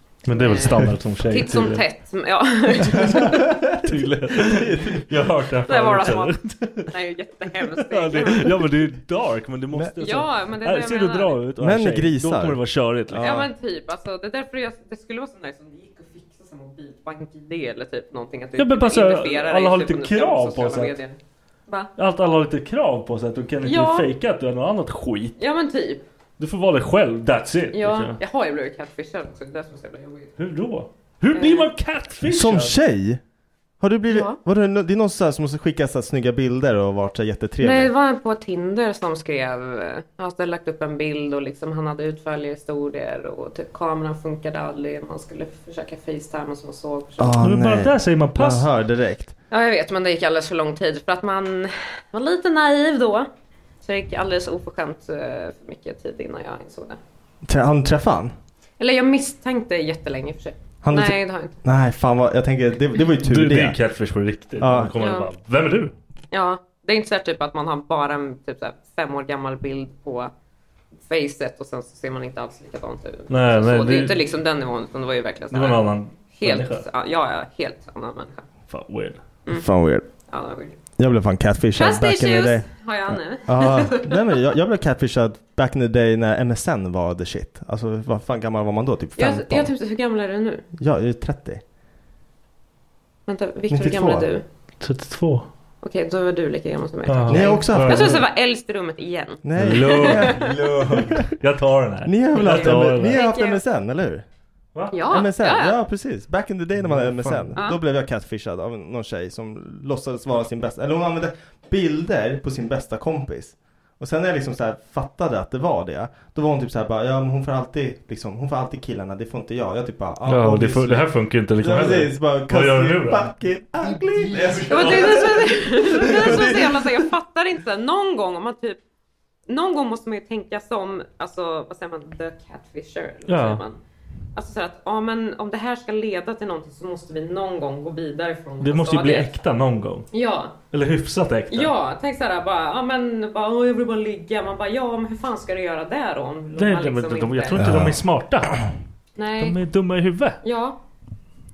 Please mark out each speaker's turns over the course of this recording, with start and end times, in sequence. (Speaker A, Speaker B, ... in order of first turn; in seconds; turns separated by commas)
Speaker A: 0.2-1.8, Speaker B: 0.3-3.5, Speaker A: 2.8-6.9, Speaker C: 3.0-5.0, Speaker B: 5.7-8.7, Speaker A: 7.6-13.4, Speaker B: 10.0-11.4, Speaker C: 11.6-13.5, Speaker B: 13.1-21.9, Speaker A: 18.6-20.9, Speaker A: 22.0-25.4, Speaker B: 23.6-24.1, Speaker B: 25.4-26.0, Speaker A: 26.4-28.2, Speaker B: 27.7-30.4, Speaker A: 30.4-32.7, Speaker B: 31.3-31.7, Speaker C: 32.2-33.2, Speaker C: 33.8-37.9, Speaker B: 34.1-34.4, Speaker B: 37.6-47.4, Speaker C: 47.2-49.3, Speaker A: 47.4-48.7, Speaker B: 49.5-53.3, Speaker B: 53.8-57.0, Speaker C: 57.4-58.3, Speaker B: 58.8-61.6, Speaker C: 60.8-63.8, Speaker A: 63.2-65.9, Speaker C: 64.6-64.9, Speaker B: 65.0-65.3, Speaker B: 66.3-70.3, Speaker B: 71.0-75.8, Speaker A: 73.3-74.2, Speaker A: 75.5-76.8, Speaker B: 76.4-78.5, Speaker A: 78.7-79.2, Speaker C: 79.5-80.0, Speaker B: 80.3-80.8, Speaker C: 81.0-89.7, Speaker B: 81.7-84.4, Speaker B: 89.2-90.7, Speaker C: 90.8-91.6, Speaker B: 93.3-94.4, Speaker C: 93.7-94.3, Speaker A: 94.8-95.5, Speaker B: 95.8-100.4, Speaker A: 97.1-98.2, Speaker C: 97.3-98.2, Speaker C: 99.4-101.3, Speaker A: 99.6-103.2, Speaker C: 102.0-104.2, Speaker B: 102.3-103.6, Speaker B: 104.9-105.8, Speaker C: 105.1-127.1, Speaker A: 106.8-107.6, Speaker A: 120.2-123.3, Speaker A: 124.2-125.5, Speaker B: 124.7-128.8, Speaker A: 126.0-126.4, Speaker B: 129.5-133.8, Speaker A: 133.3-133.6, Speaker B: 134.3-139.3, Speaker A: 138.6-140.1, Speaker B: 140.1-140.6, Speaker A: 140.7-141.7, Speaker B: 141.5-147.7, Speaker A: 146.6-148.6, Speaker C: 147.6-148.0, Speaker B: 149.2-149.6, Speaker A: 149.4-150.4, Speaker B: 150.4-150.8